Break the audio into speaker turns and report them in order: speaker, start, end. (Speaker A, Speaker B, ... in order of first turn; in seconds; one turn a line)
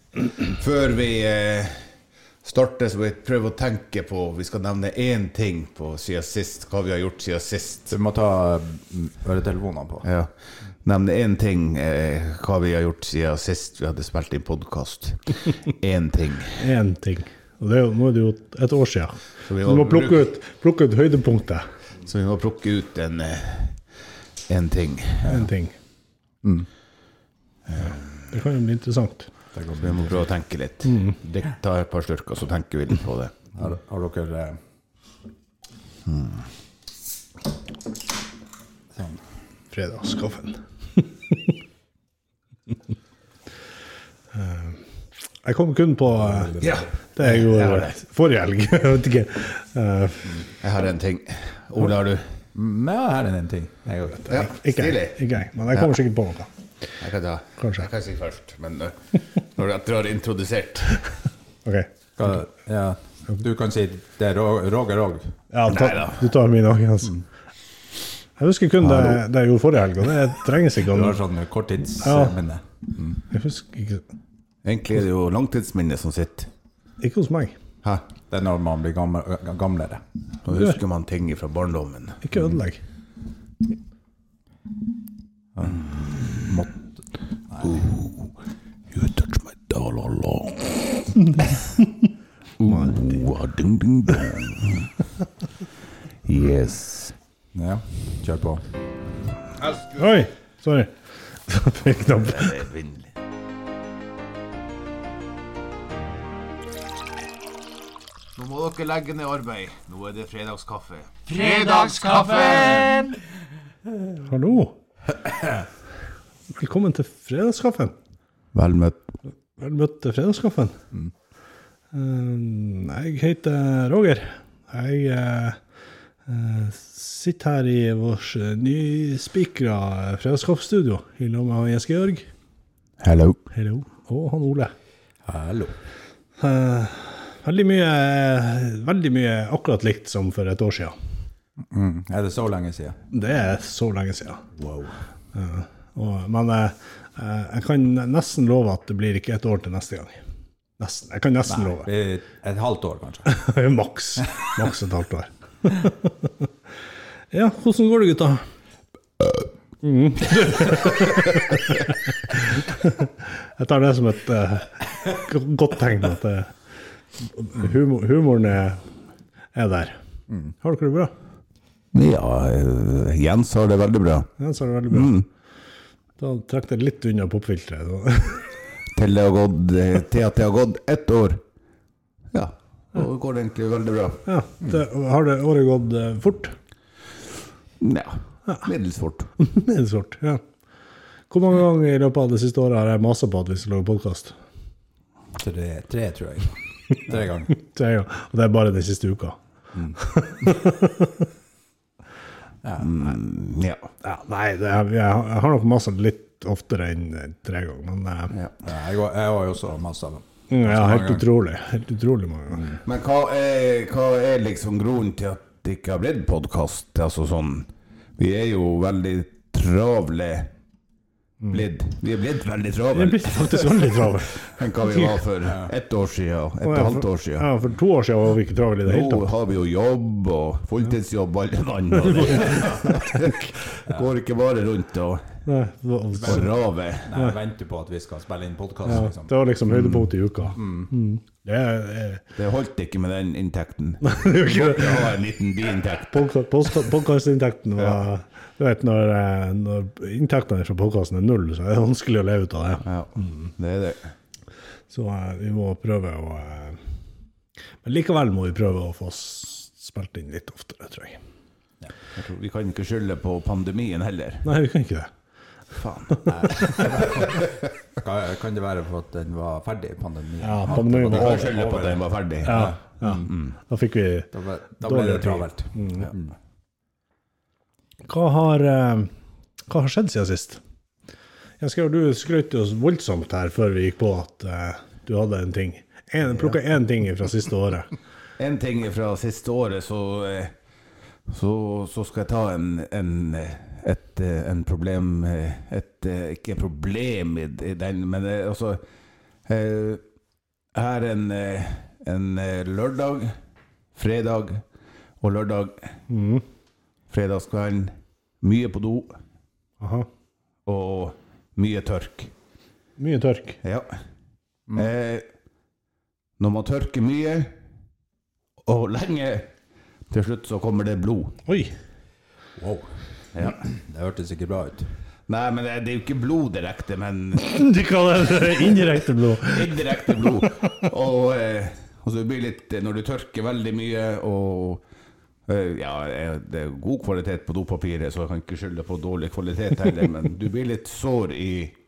Speaker A: 0.4-1.9
Speaker A: 2.4-7.9
Speaker B: 7.9-10.1
Speaker A: 10.0-16.7
Speaker C: 16.6-21.7
Speaker A: 19.4-20.3
Speaker A: 22.0-23.8
Speaker A: 24.5-25.4
Speaker C: 25.2-25.8
Speaker B: 26.4-26.7
Speaker A: 27.7-28.4
Speaker C: 28.3-29.3
Speaker B: 29.5-30.2
Speaker A: 29.8-33.4
Speaker C: 30.9-31.2
Speaker B: 33.5-34.6
Speaker A: 36.1-36.4
Speaker B: 38.9-39.2
Speaker C: 39.7-41.5
Speaker C: 44.3-44.8
Speaker C: 45.4-50.5
Speaker B: 46.2-46.9
Speaker A: 46.6-47.9
Speaker A: 50.6-52.3
Speaker B: 52.5-54.4
Speaker C: 54.3-56.5
Speaker A: 54.3-55.2
Speaker A: 57.0-61.1
Speaker C: 57.6-57.9
Speaker C: 61.7-61.9
Speaker B: 62.2-65.4
Speaker C: 65.5-67.2
Speaker A: 65.7-66.3
Speaker C: 68.4-71.2
Speaker B: 68.8-69.2
Speaker B: 70.8-73.2
Speaker C: 72.0-72.4
Speaker C: 73.3-74.0
Speaker A: 74.6-76.5
Speaker C: 77.0-77.5
Speaker B: 78.3-80.0
Speaker A: 80.5-82.2
Speaker C: 82.2-82.8
Speaker B: 85.5-86.9
Speaker A: 85.7-86.5
Speaker B: 87.5-87.9
Speaker A: 87.6-88.3
Speaker A: 88.9-91.6
Speaker A: 92.6-95.0
Speaker A: 96.2-97.2
Speaker B: 97.5-98.7
Speaker A: 99.6-100.2
Speaker C: 100.0-101.0
Speaker C: 101.5-102.6
Speaker A: 102.2-103.1
Speaker A: 108.4-113.2
Speaker C: 114.2-114.8
Speaker B: 115.3-115.6
Speaker C: 116.5-118.0
Speaker A: 118.5-119.0
Speaker C: 119.6-120.8
Speaker C: 121.9-125.6
Speaker C: 126.3-132.3
Speaker A: 133.0-133.4
Speaker C: 133.5-134.7
Speaker B: 135.2-135.8
Speaker C: 136.4-140.9
Speaker B: 141.6-143.0
Speaker C: 143.1-144.5
Speaker B: 144.6-145.0
Speaker C: 145.3-150.2
Speaker C: 150.8-151.9
Speaker B: 151.5-153.3
Speaker C: 153.3-156.5
Speaker C: 157.3-158.4
Speaker C: 159.8-166.5
Speaker C: 167.2-168.8
Speaker C: 169.6-170.0
Speaker C: 170.6-171.1
Speaker A: 171.9-174.3
Speaker C: 174.4-175.2
Speaker A: 174.9-175.3
Speaker C: 176.2-178.5
Speaker A: 178.9-181.4
Speaker A: 182.3-184.2
Speaker C: 184.3-186.6
Speaker A: 187.8-189.3
Speaker C: 189.4-190.4
Speaker C: 191.3-194.3
Speaker B: 195.3-197.5
Speaker C: 197.5-199.4
Speaker B: 199.7-200.0
Speaker C: 199.9-201.3
Speaker B: 202.6-203.1
Speaker A: 202.8-203.9
Speaker C: 204.0-208.3
Speaker B: 208.6-211.3
Speaker C: 210.5-212.7
Speaker B: 212.5-212.8
Speaker A: 212.8-220.5
Speaker A: 221.5-227.5
Speaker C: 222.9-225.2
Speaker B: 225.4-225.7
Speaker C: 226.6-229.3
Speaker A: 228.8-235.3
Speaker C: 232.0-233.5
Speaker B: 233.9-234.1
Speaker C: 235.5-236.5
Speaker B: 236.1-236.5
Speaker A: 236.2-237.1
Speaker B: 237.1-239.3
Speaker C: 238.9-242.2
Speaker A: 239.7-240.1
Speaker B: 240.5-240.9
Speaker A: 242.4-246.3
Speaker C: 244.0-245.2
Speaker C: 246.1-252.8
Speaker A: 252.8-254.1
Speaker C: 254.9-256.8
Speaker C: 257.8-261.2
Speaker A: 262.1-264.4
Speaker C: 264.4-265.1
Speaker A: 265.7-267.5
Speaker C: 266.1-266.9
Speaker B: 266.3-273.3
Speaker C: 270.4-271.6
Speaker A: 271.1-272.7
Speaker C: 272.4-274.3
Speaker A: 273.3-273.5
Speaker B: 274.3-276.4
Speaker C: 274.8-276.1
Speaker C: 278.1-279.1
Speaker C: 279.7-280.6
Speaker C: 281.6-287.9
Speaker A: 288.4-290.5
Speaker A: 291.3-298.8
Speaker A: 299.5-300.0
Speaker A: 300.7-303.4
Speaker A: 303.9-304.6
Speaker A: 305.2-305.9
Speaker C: 306.1-306.4
Speaker A: 307.1-309.2
Speaker C: 309.8-310.1
Speaker A: 310.7-312.3
Speaker C: 313.0-313.6
Speaker A: 313.6-314.0
Speaker A: 314.8-315.3
Speaker A: 316.4-317.6
Speaker A: 318.7-319.5
Speaker A: 320.1-321.4
Speaker C: 321.5-321.8
Speaker B: 322.6-324.9
Speaker A: 325.3-327.5
Speaker C: 327.4-330.5
Speaker A: 329.4-334.8
Speaker A: 335.5-341.8